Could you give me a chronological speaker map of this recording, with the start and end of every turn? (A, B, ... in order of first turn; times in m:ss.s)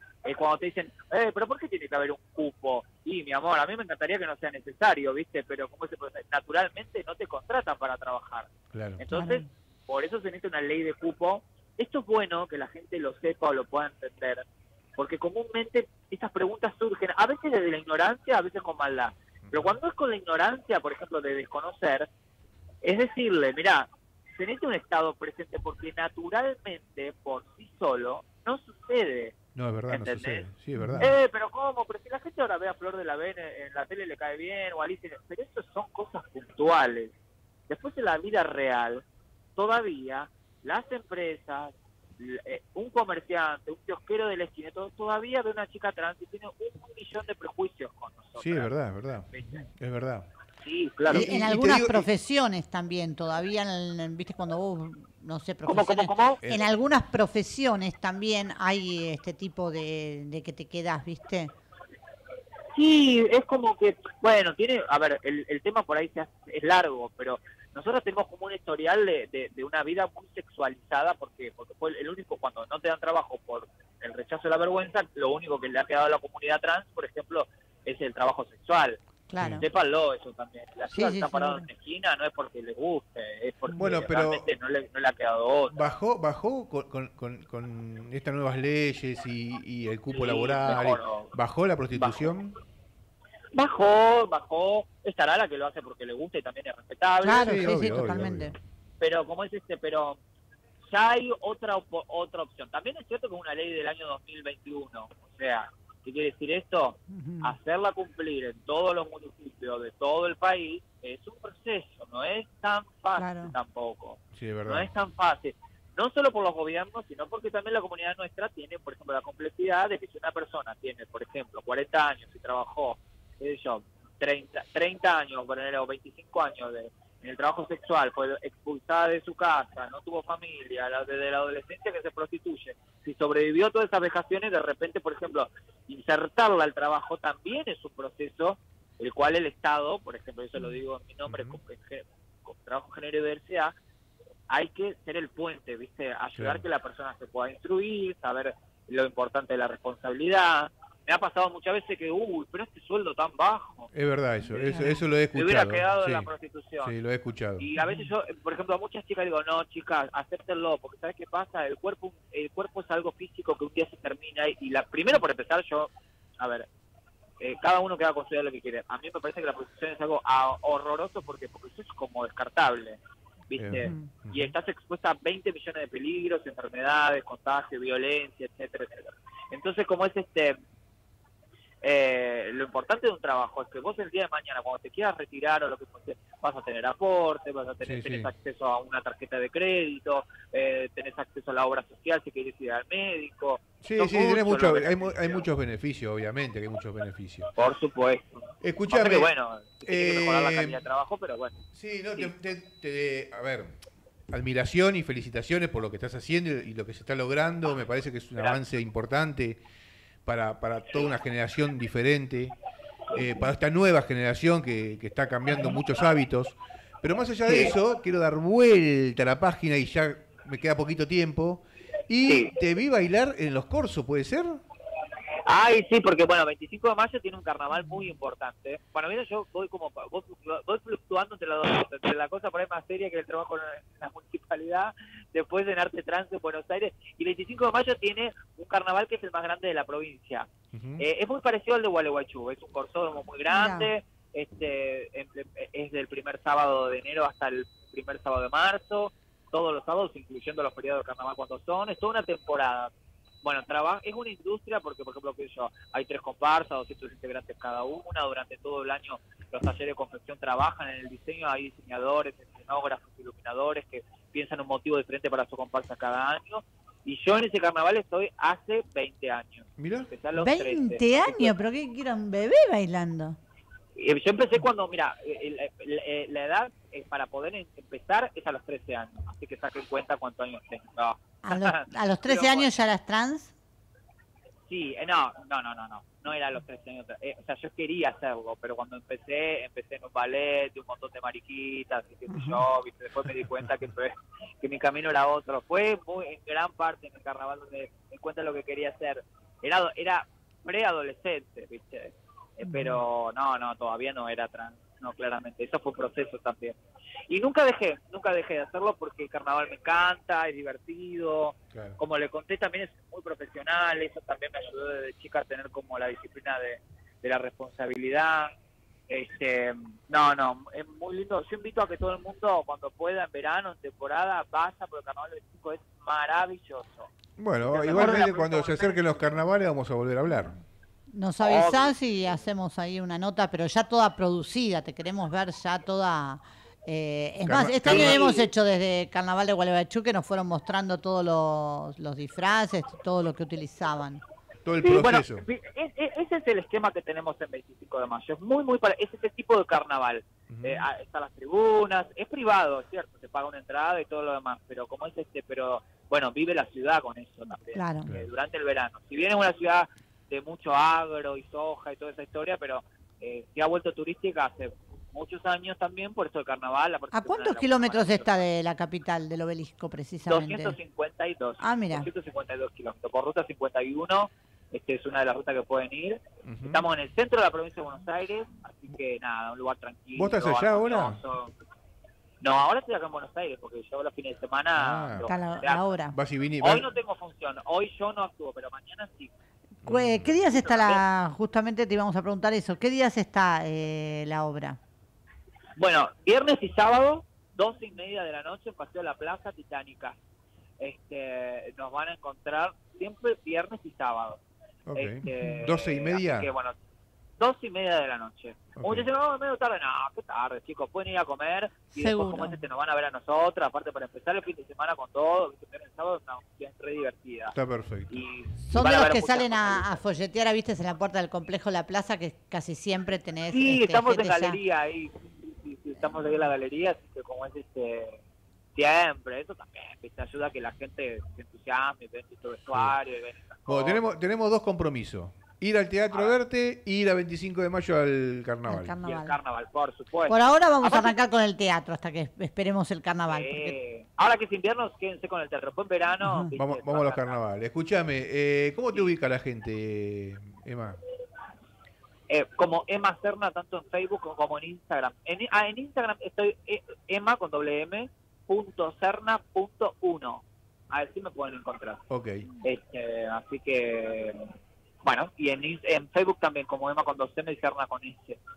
0:00.3-0:14.4 A
0:08.7-0:09.0 B
0:09.1-0:09.5 C
0:15.0-0:22.1 A
0:19.5-0:19.8 B
0:22.8-0:29.4 A
0:29.6-0:31.1 B
0:29.9-0:30.5 A
0:30.8-0:31.1 C
0:31.0-0:37.1 A
0:37.7-0:39.0 A
0:39.6-0:48.7 A
0:48.4-0:50.3 B
0:49.3-0:49.7 A
0:50.6-0:51.4 A
0:51.1-0:52.1 B
0:51.1-1:01.5 C
0:55.6-0:56.5 A
1:02.8-1:19.0 A
1:19.3-1:19.7 C
1:19.4-1:19.7 B
1:19.6-1:25.8 A
1:20.9-1:21.7 C
1:23.8-1:24.5 B
1:25.7-1:32.6 B
1:30.1-1:31.3 A
1:31.9-1:32.3 A
1:33.5-1:38.2 A
1:37.2-1:38.6 C
1:37.4-1:38.5 B
1:39.0-1:40.2 A
1:40.9-2:23.7 A
1:47.1-1:47.6 C
1:53.2-1:53.5 C
1:54.4-1:54.9 B
2:21.3-2:21.6 B
2:24.5-2:33.9 A
2:26.4-2:26.6 B
2:33.9-2:36.3 B
2:34.6-2:35.0 C
2:35.3-2:36.9 A
2:36.8-2:37.7 B
2:37.6-2:46.7 A
2:37.8-2:38.1 C
2:47.4-3:00.6 A
2:53.6-2:54.6 B
2:53.8-2:54.1 C
3:01.8-3:15.5 A
3:07.8-3:08.3 B
3:13.8-3:17.5 B
3:17.6-3:21.6 A
3:18.6-3:19.3 B
3:19.9-3:20.8 B
3:21.7-3:23.7 B
3:24.3-3:29.6 B
3:30.2-3:32.6 B
3:33.1-3:33.5 A
3:33.1-3:44.6 B
3:37.5-3:37.8 A
3:42.3-3:42.5 A
3:45.4-4:00.5 A
4:00.7-4:01.0 B
4:01.0-4:12.9 A
4:03.5-4:03.9 C
4:13.4-4:31.6 A
4:29.8-4:30.1 B
4:30.4-4:33.4 C
4:34.0-4:42.7 A
4:41.4-4:43.5 C
4:44.7-5:06.8 A
4:52.3-4:52.6 C
5:02.6-5:03.0 C
5:07.3-5:18.5 A
5:11.7-5:12.0 B
5:19.1-5:27.1 A
5:27.4-5:30.6 B
5:27.7-5:29.1 A
5:31.1-5:44.2 C
5:31.4-5:32.0 A
5:37.4-5:38.2 B
5:37.8-5:38.5 A
5:44.6-5:45.4 B
5:44.8-6:08.5 A
5:50.5-5:50.9 B
5:57.7-5:58.1 C
6:07.1-6:10.8 C
6:10.3-6:21.5 A
6:11.6-6:12.1 C
6:16.4-6:16.9 B
6:20.2-6:21.2 B
6:22.4-6:25.9 A
6:24.8-6:25.3 B
6:25.2-6:26.2 C
6:26.1-6:26.9 B
6:26.6-6:29.3 A
6:29.8-6:34.8 C
6:29.8-6:30.4 B
6:30.6-6:31.0 A
6:35.8-6:40.2 A
6:40.8-6:44.4 A
6:44.9-6:46.5 B
6:45.0-6:46.8 A
6:47.4-6:57.6 A
6:48.8-6:49.1 B
6:52.0-6:52.6 C
6:57.5-6:58.2 B
6:58.1-7:00.0 A
6:58.7-7:04.6 C
7:03.5-7:08.2 A
7:08.8-7:14.0 A
7:13.7-7:19.0 B
7:16.1-7:16.4 A
7:18.7-7:19.4 C
7:19.0-7:21.2 A
7:20.3-7:23.8 C
7:23.3-7:27.4 A
7:26.2-7:26.5 C
7:26.6-7:31.0 B
7:32.3-7:42.0 A
7:42.1-7:42.5 B
7:42.6-7:44.4 A
7:45.0-7:48.4 A